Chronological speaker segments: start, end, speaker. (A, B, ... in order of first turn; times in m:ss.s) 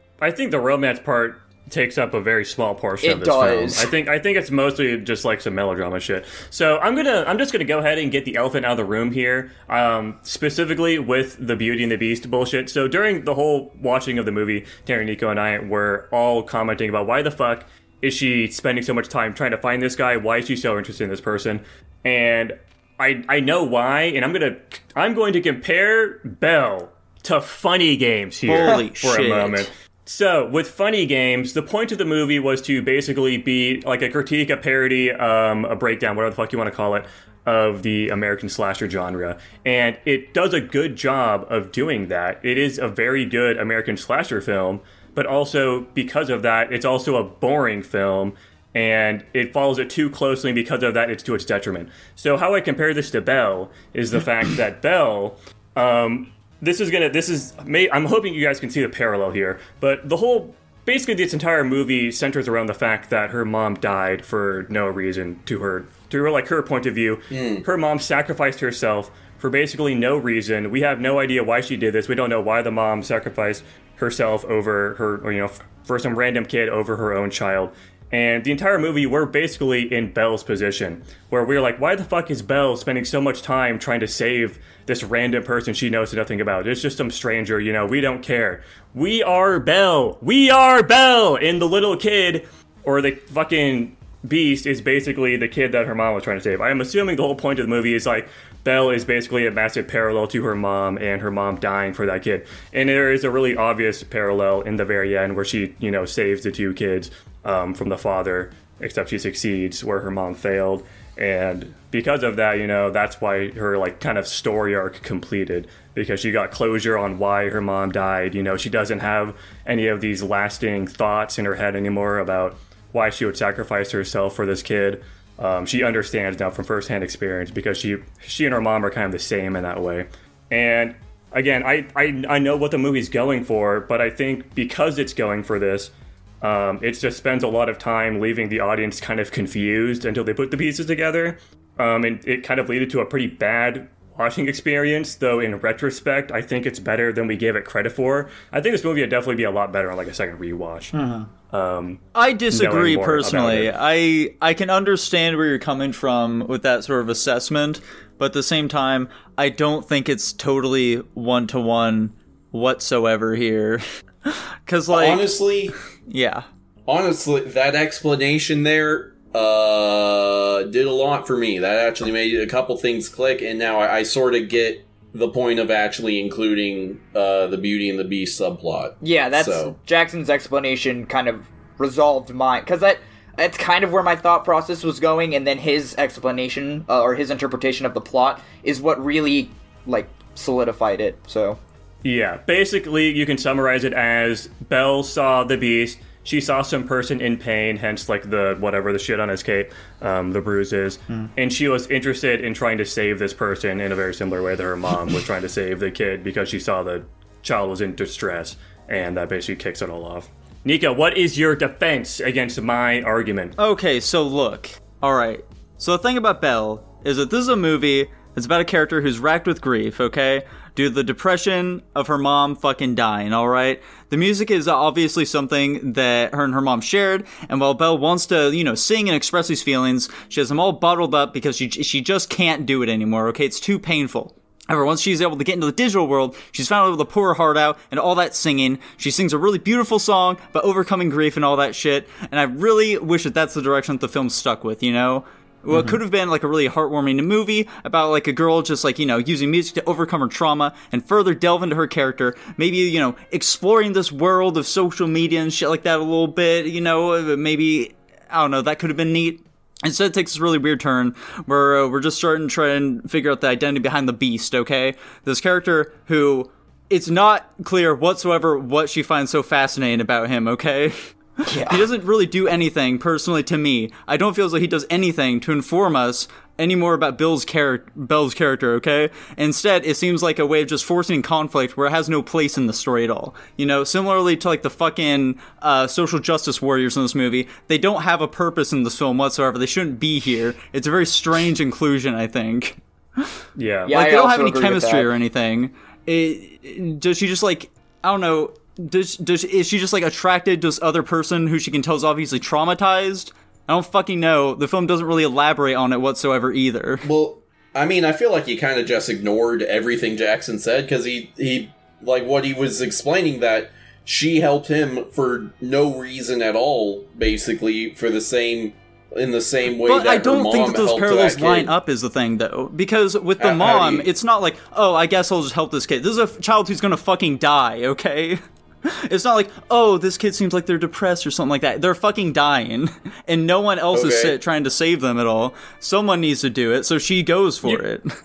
0:00.2-2:30.9 A
0:03.0-0:03.9 B
0:28.4-0:29.7 C
1:07.3-1:07.6 D
2:30.9-2:31.3 B
2:31.5-2:33.7 A
2:32.1-2:45.3 C
2:44.9-2:45.8 D
2:46.1-2:46.4 C
2:46.9-2:59.7 D
2:59.0-3:11.6 B
3:12.0-3:33.6 A
3:33.6-4:30.9 C
4:31.4-4:31.9 B
4:31.5-5:07.1 C
4:53.6-4:53.9 A
4:53.9-4:55.1 B
5:07.0-5:21.7 D
5:19.8-5:38.1 C
5:23.4-5:24.1 D
5:33.9-5:34.4 D